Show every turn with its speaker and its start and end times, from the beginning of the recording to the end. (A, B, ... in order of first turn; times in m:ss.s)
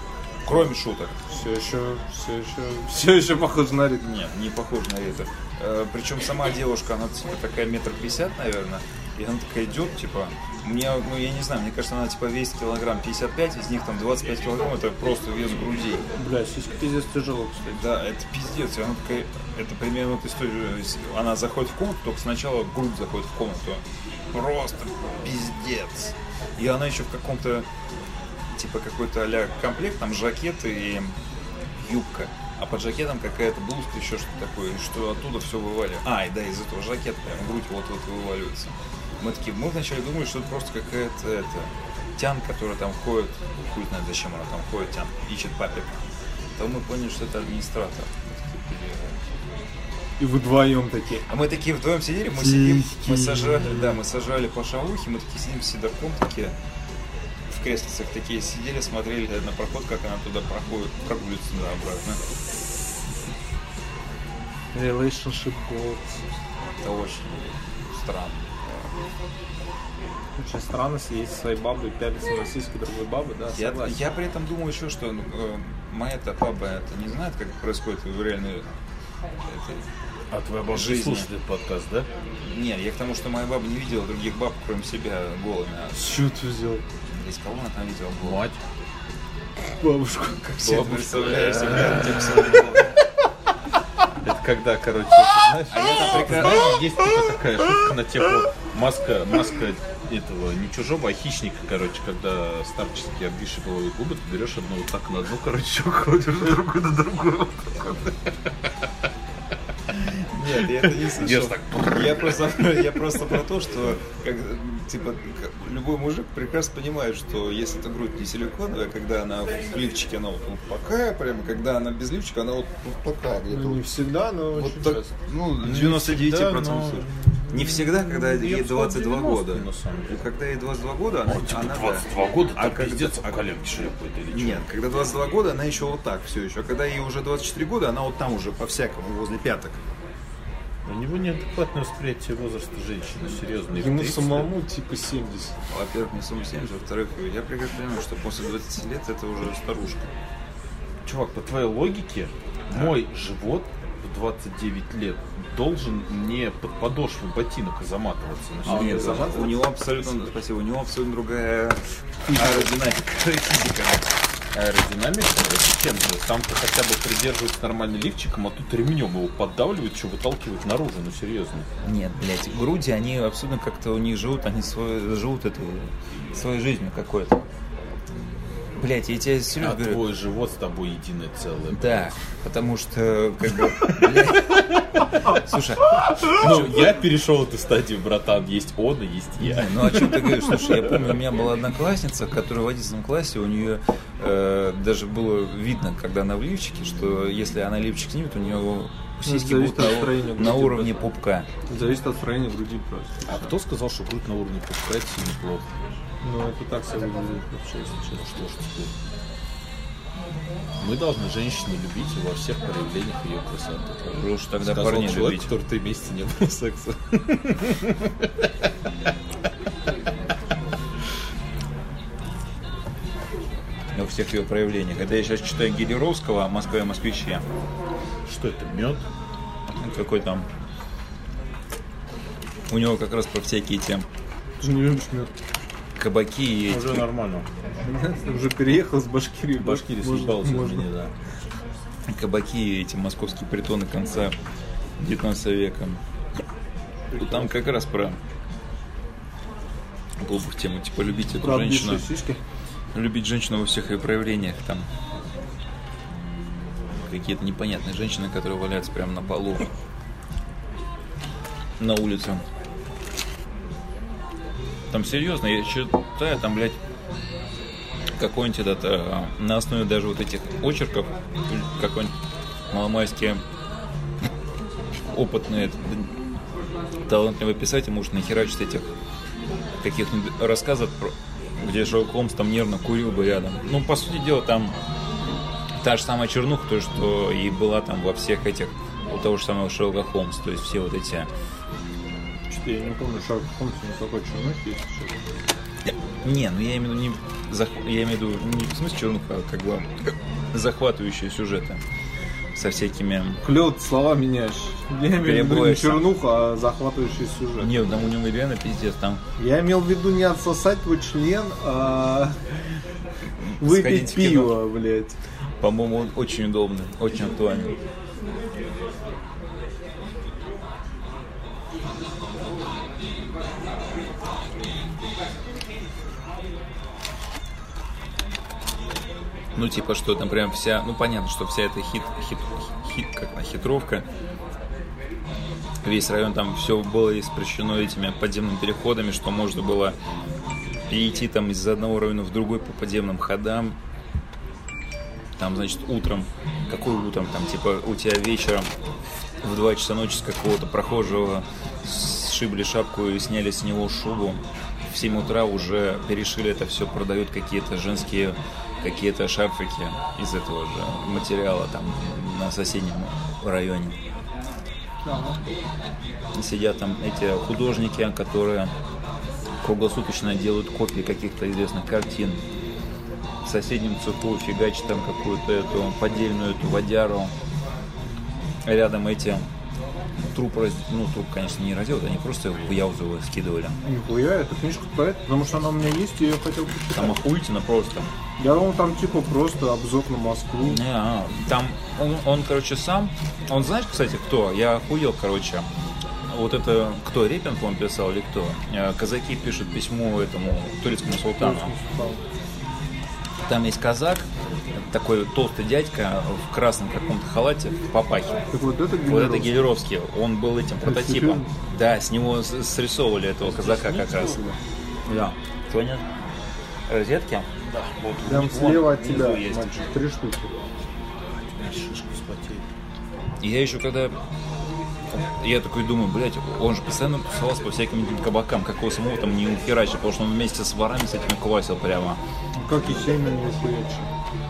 0:00.4-0:01.2 A
0:01.3-0:04.1 B
0:04.0-0:16.1 A
0:16.1-0:17.9 B
0:17.7-0:27.7 A
0:28.5-0:31.2 A
0:31.8-0:45.9 A
0:46.6-0:49.2 A
0:50.2-0:51.3 B
0:51.3-0:56.6 A
0:52.3-0:54.0 B
0:57.5-1:02.2 A
1:04.7-1:06.2 B
1:06.8-1:08.6 A
1:10.4-1:14.0 B
1:13.6-1:18.6 A
1:19.5-1:19.8 A
1:20.3-1:22.1 C
1:20.7-1:21.3 A
1:22.4-1:26.0 A
1:25.9-1:26.8 B
1:27.1-1:28.4 A
1:28.2-1:28.6 C
1:29.6-1:30.8 B
1:30.6-1:32.9 A
1:30.6-1:32.7 C
1:34.2-1:48.1 C
1:35.7-1:36.8 A
1:50.3-2:04.0 A
1:51.0-1:52.4 C
2:03.5-2:05.1 B
2:04.5-2:19.8 A
2:05.6-2:10.2 C
2:11.2-2:14.6 C
2:20.8-2:24.5 C
2:23.7-2:25.5 B
2:25.7-2:30.1 A
2:31.0-2:39.6 C
2:38.6-2:39.6 B
2:38.6-2:44.0 A
2:44.5-2:51.7 C
2:51.8-2:57.4 A
2:58.8-3:00.0 A
2:59.6-3:02.2 C
3:01.7-3:04.6 A
3:05.3-3:06.6 A
3:06.3-3:11.0 C
3:09.4-3:21.5 A
3:19.2-3:21.1 B
3:21.7-3:23.5 B
3:23.2-3:25.7 C
3:26.2-3:28.4 B
3:28.0-3:28.9 C
3:30.8-3:38.1 C
3:34.1-3:35.5 A
3:43.9-3:47.4 A
3:48.3-3:49.0 C
3:49.8-3:50.5 A
3:52.7-3:54.0 A
3:54.6-3:55.3 B
3:56.0-3:57.0 A
3:56.7-3:57.5 C
3:57.8-4:00.8 B
3:59.6-4:01.1 C
4:02.1-4:04.3 A
4:05.0-4:06.0 A
4:07.1-4:07.6 B
4:07.2-4:08.2 A
4:10.2-4:12.0 A
4:11.4-4:12.4 B
4:12.9-4:14.9 A
4:17.0-4:19.7 A
4:21.8-4:22.4 A
4:24.9-4:26.8 A
4:28.2-4:32.1 A
4:32.7-4:33.4 A
4:35.0-4:36.1 A
4:37.0-4:38.9 A
4:39.8-4:44.7 A
4:45.8-4:51.3 A
4:52.5-4:55.3 B
4:55.9-5:01.8 A
5:02.5-5:03.4 A
5:03.4-5:07.9 B
5:05.2-5:06.1 A
5:07.6-5:09.2 A
5:09.4-5:12.4 B
5:13.4-5:14.6 A
5:13.6-5:15.2 B
5:15.6-5:17.7 A
5:29.6-5:34.1 A
5:35.8-5:40.0 A
5:40.9-5:43.8 A
5:45.4-5:48.7 A
5:49.4-6:04.0 A
6:05.0-6:05.4 B
6:06.3-6:08.7 A
6:09.6-6:12.4 A
6:13.4-6:17.3 A
6:18.6-6:19.5 A
6:20.3-6:23.8 A
6:23.8-6:27.2 B
6:26.9-6:28.1 A
6:28.4-6:30.8 B
6:30.6-6:35.7 A
6:36.3-6:41.7 A
6:41.3-6:42.2 B
6:43.4-6:48.4 A
6:48.5-6:49.6 B
6:49.0-6:54.5 A
6:50.8-6:51.5 B
6:53.4-6:54.5 C
6:55.1-6:56.0 A
6:56.9-6:57.5 A
6:57.6-6:58.0 C
6:58.0-6:59.8 A
6:58.2-7:00.5 B
7:01.5-7:02.6 C
7:03.4-7:04.1 A
7:05.1-7:12.2 A
7:12.5-7:14.1 B